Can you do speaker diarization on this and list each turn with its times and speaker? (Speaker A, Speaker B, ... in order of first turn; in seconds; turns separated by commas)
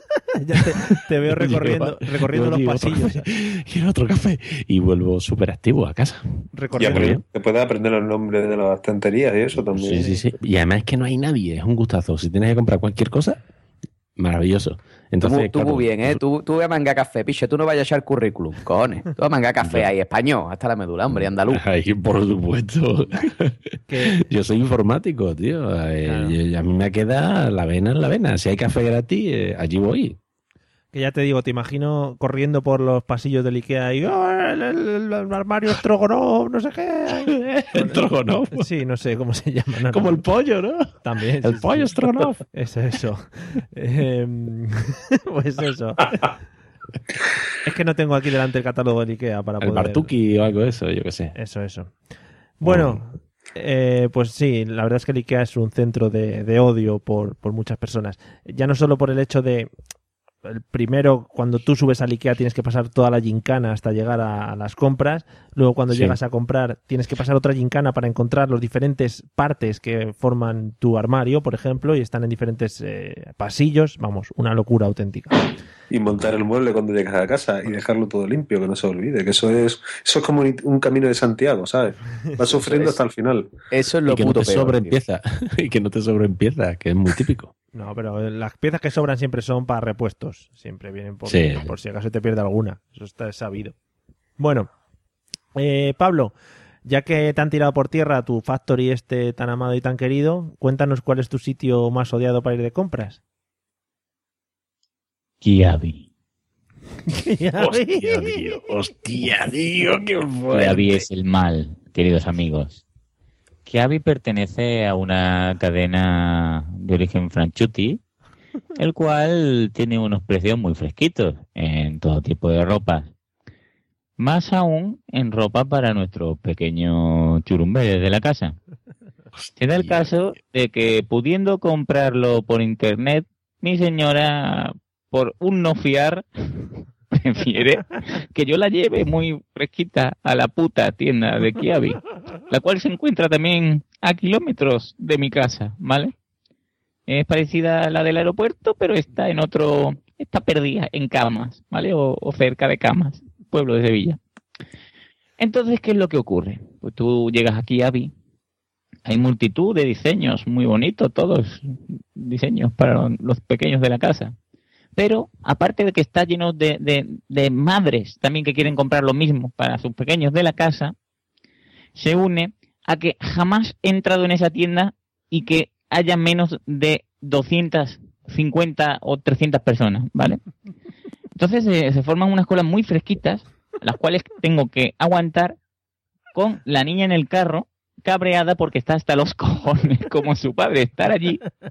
Speaker A: 0.3-3.2, Speaker B: 1.3-7.2, Speaker A: 6.5-7.2, Speaker C: 6.8-10.1, Speaker B: 9.6-13.4, Speaker B: 14.2-16.2, Speaker D: 15.2-21.6, Speaker B: 19.6-19.9, Speaker B: 21.1-30.2, Speaker A: 23.9-24.2, Speaker A: 26.0-26.4, Speaker A: 30.9-40.2, Speaker B: 37.2-38.6, Speaker B: 39.9-42.4, Speaker A: 41.0-46.3, Speaker A: 47.6-50.1, Speaker B: 49.6-51.3, Speaker A: 51.4-51.9, Speaker A: 52.6-59.7, Speaker B: 52.6-53.0, Speaker A: 60.4-75.5, Speaker B: 65.9-66.2, Speaker C: 75.9-83.5, Speaker D: 82.6-82.9, Speaker D: 83.7-84.9, Speaker B: 84.1-87.5, Speaker A: 87.7-93.7, Speaker B: 91.3-91.7, Speaker A: 94.4-94.7, Speaker A: 95.5-96.3, Speaker A: 96.8-103.2, Speaker B: 105.4-106.0, Speaker A: 107.1-108.4, Speaker B: 107.5-111.0, Speaker E: 110.5-112.8, Speaker E: 113.7-118.0, Speaker E: 118.8-123.1, Speaker E: 124.2-128.6, Speaker B: 129.3-130.1, Speaker E: 129.6-146.1, Speaker E: 147.1-154.2, Speaker E: 155.4-158.1, Speaker E: 159.1-164.3, Speaker E: 164.9-170.9, Speaker E: 171.9-180.4, Speaker E: 181.3-185.6, Speaker E: 186.3-191.4